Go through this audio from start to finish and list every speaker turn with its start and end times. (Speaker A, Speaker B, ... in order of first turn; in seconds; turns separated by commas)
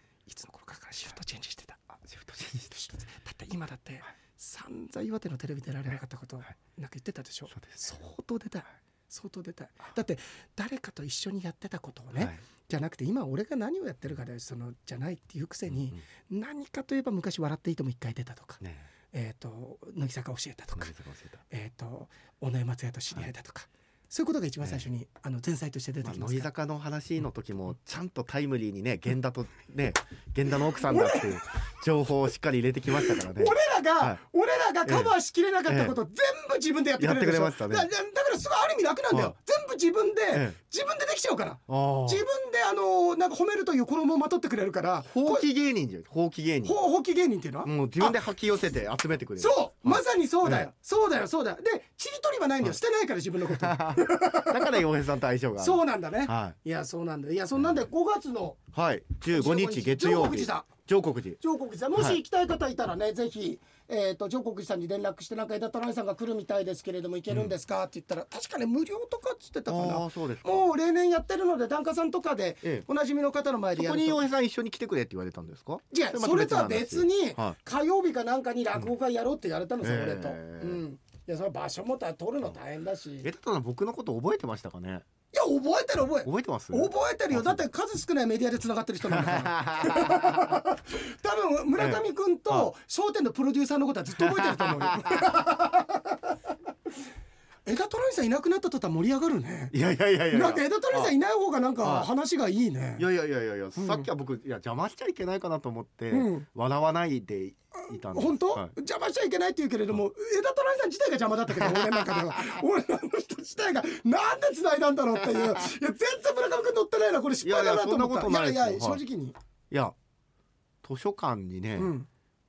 Speaker A: 0.3-1.9, Speaker B: 2.0-2.7, Speaker A: 2.7-18.6, Speaker B: 7.5-7.8, Speaker B: 18.6-18.9, Speaker A: 19.1-21.0, Speaker B: 20.8-21.4, Speaker A: 21.5-26.5, Speaker B: 26.0-34.2, Speaker A: 30.9-31.4, Speaker A: 33.0-45.5, Speaker B: 34.9-35.1, Speaker B: 35.7-36.0, Speaker B: 37.0-37.9, Speaker B: 41.7-42.2, Speaker B: 45.0-46.8, Speaker A: 46.6-48.2, Speaker B: 47.6-50.7, Speaker A: 49.4-54.7, Speaker B: 53.5-56.6, Speaker A: 55.6-58.6, Speaker B: 57.6-57.9, Speaker B: 58.7-61.4, Speaker A: 59.3-60.7, Speaker A: 61.4-74.2, Speaker B: 69.7-70.7, Speaker B: 73.8-77.6, Speaker A: 75.9-83.3, Speaker B: 79.8-80.8, Speaker B: 83.2-85.0, Speaker A: 85.3-96.2, Speaker B: 86.2-87.6, Speaker B: 89.1-90.6, Speaker B: 91.8-92.7, Speaker B: 94.2-95.3, Speaker A: 97.7-99.7, Speaker B: 99.7-101.1, Speaker A: 100.3-103.1, Speaker B: 101.8-102.1, Speaker B: 103.0-108.7, Speaker A: 103.8-104.1, Speaker A: 106.1-106.5, Speaker A: 107.8-119.3, Speaker B: 111.5-112.6, Speaker B: 115.2-115.7, Speaker B: 117.4-119.0, Speaker B: 120.8-121.9, Speaker A: 121.8-122.1